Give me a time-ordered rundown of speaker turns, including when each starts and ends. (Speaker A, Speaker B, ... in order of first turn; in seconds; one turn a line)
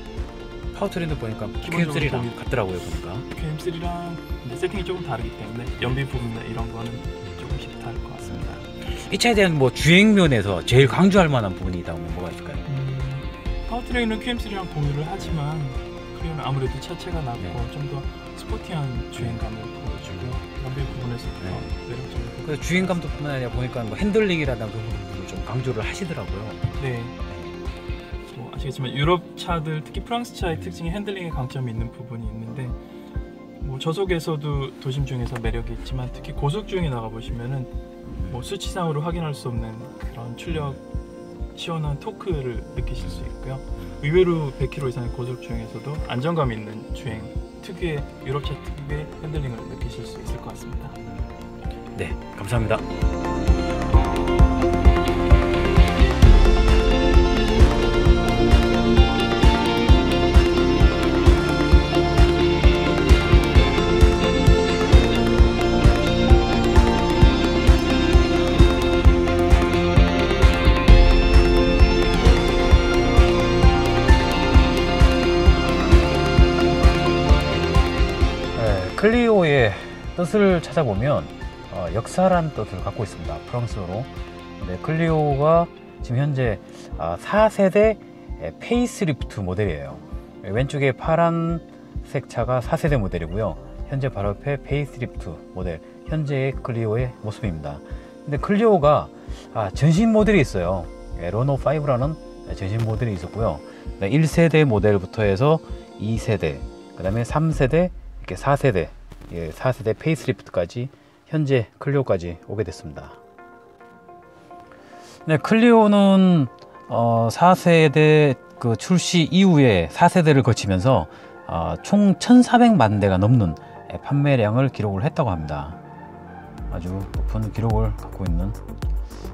Speaker A: 0.7-3.3
Speaker B: 1.6-2.3
Speaker B: 3.3-8.7
Speaker A: 8.3-12.6
Speaker B: 12.7-23.2
Speaker A: 17.4-17.7
Speaker A: 21.4-21.7
Speaker A: 22.4-26.7
Speaker B: 26.8-27.1
Speaker B: 28.3-32.8
Speaker B: 33.6-37.7
Speaker A: 38.1-38.4
Speaker B: 38.3-40.8
Speaker A: 40.5-40.8
Speaker B: 41.5-51.0
Speaker A: 43.0-43.3
Speaker A: 52.0-52.9
Speaker A: 78.5-113.2
Speaker A: 115.3-125.8
Speaker A: 126.7-128.6